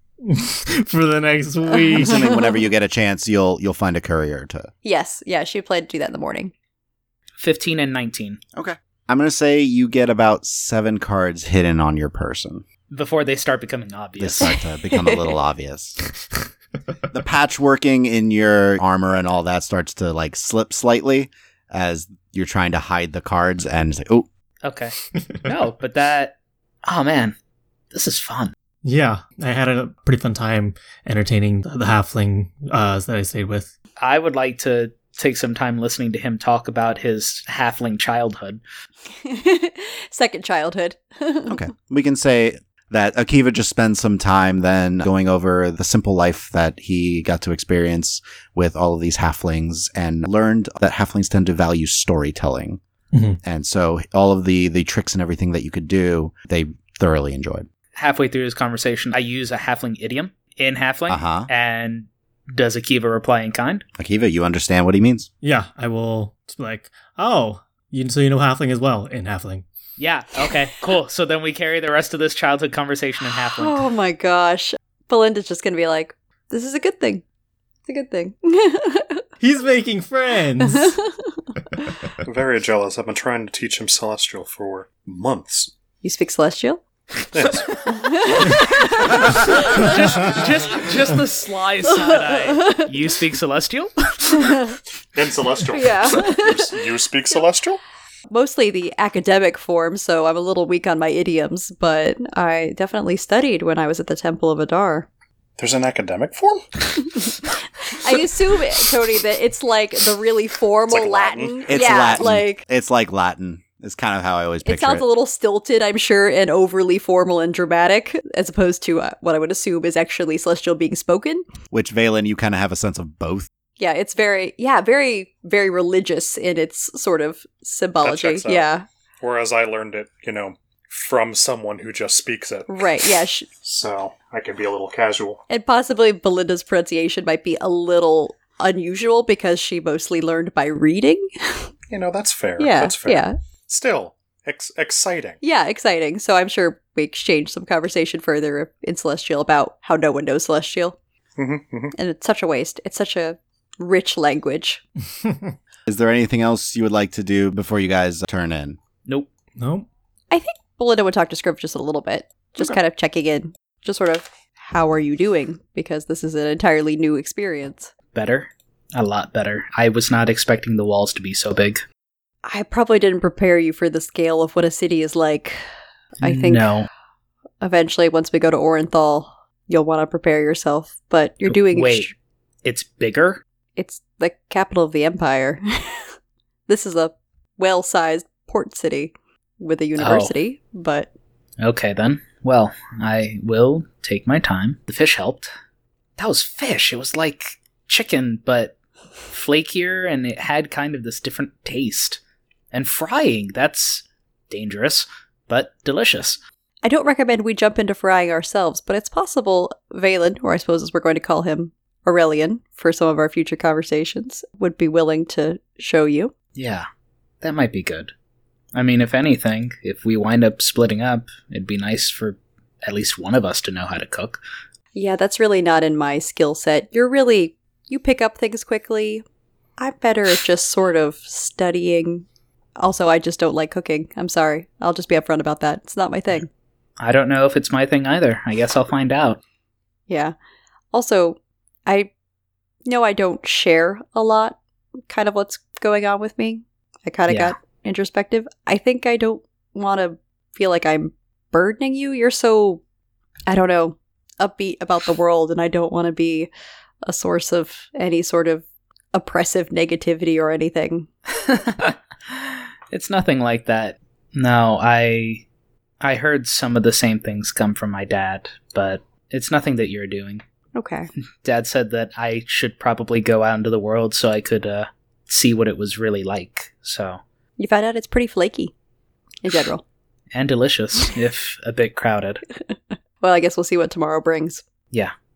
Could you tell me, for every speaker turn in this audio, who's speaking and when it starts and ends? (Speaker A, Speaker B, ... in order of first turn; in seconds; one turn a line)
Speaker A: 0.2-2.3
Speaker B: 1.7-2.4
Speaker C: 1.9-4.7
Speaker B: 4.8-6.5
Speaker D: 7.4-8.4
Speaker C: 8.5-12.6
Speaker D: 12.9-14.5
Speaker C: 14.2-16.1
Speaker B: 14.4-15.2
Speaker C: 17.1-24.3
Speaker D: 24.6-27.3
Speaker D: 27.9-28.5
Speaker A: 28.8-33.7
Speaker D: 34.0-38.6
Speaker B: 39.1-41.6
Speaker C: 41.5-52.8
Speaker A: 53.1-53.4
Speaker C: 53.4-57.7
Speaker D: 57.9-63.8
Speaker C: 61.1-61.5
Speaker C: 64.0-65.3
Speaker A: 65.4-69.6
Speaker D: 70.0-73.8
Speaker B: 73.5-77.2
Speaker B: 77.9-79.2
Speaker A: 79.4-81.0
Speaker B: 80.6-81.9
Speaker E: 82.2-85.7
Speaker B: 86.0-86.8
Speaker E: 87.3-88.7
Speaker B: 87.4-90.1
Speaker D: 89.3-94.7
Speaker B: 91.9-92.9
Speaker B: 94.3-94.7
Speaker E: 95.1-97.8
Speaker B: 95.7-96.9
Speaker B: 98.3-105.1
Speaker E: 105.6-107.5
Speaker B: 107.0-107.3
Speaker B: 107.8-112.6
Speaker E: 110.9-112.2
Speaker C: 111.7-115.0
Speaker B: 114.6-121.4
Speaker C: 121.7-123.5
Speaker B: 123.8-128.8
Speaker E: 128.0-128.7
Speaker E: 129.2-132.9
Speaker B: 132.7-133.5
Speaker E: 133.6-135.4
Speaker B: 135.5-141.7
Speaker E: 141.9-145.4
Speaker B: 142.6-143.3
Speaker B: 145.4-151.0
Speaker E: 151.4-151.9
Speaker B: 151.9-154.8
Speaker A: 155.2-155.5
Speaker C: 155.9-158.8
Speaker A: 159.6-159.9
Speaker B: 160.3-167.9
Speaker D: 168.1-171.8
Speaker B: 172.4-175.6
Speaker D: 176.2-176.9
Speaker B: 176.2-176.7
Speaker B: 177.6-182.1
Speaker D: 181.5-182.1
Speaker D: 182.6-183.4
Speaker B: 183.8-186.1
Speaker B: 186.7-191.1
Speaker D: 190.0-190.3
Speaker D: 191.6-195.5
Speaker D: 196.2-198.8
Speaker D: 199.3-202.2
Speaker D: 202.7-206.4
Speaker B: 206.8-216.3
Speaker D: 216.6-216.8
Speaker D: 217.4-218.1
Speaker D: 218.7-224.4
Speaker B: 224.9-229.2
Speaker B: 229.8-232.2
Speaker B: 232.8-236.5
Speaker D: 237.0-239.4
Speaker B: 240.1-240.3
Speaker B: 240.9-242.1
Speaker B: 242.8-252.8
Speaker D: 247.3-247.5
Speaker B: 253.5-256.5
Speaker B: 257.0-261.1
Speaker D: 261.3-265.4
Speaker D: 266.0-270.4
Speaker B: 270.7-271.1
Speaker D: 271.4-277.2
Speaker B: 277.6-278.7
Speaker B: 279.4-279.8
Speaker D: 280.3-282.4
Speaker B: 282.7-284.6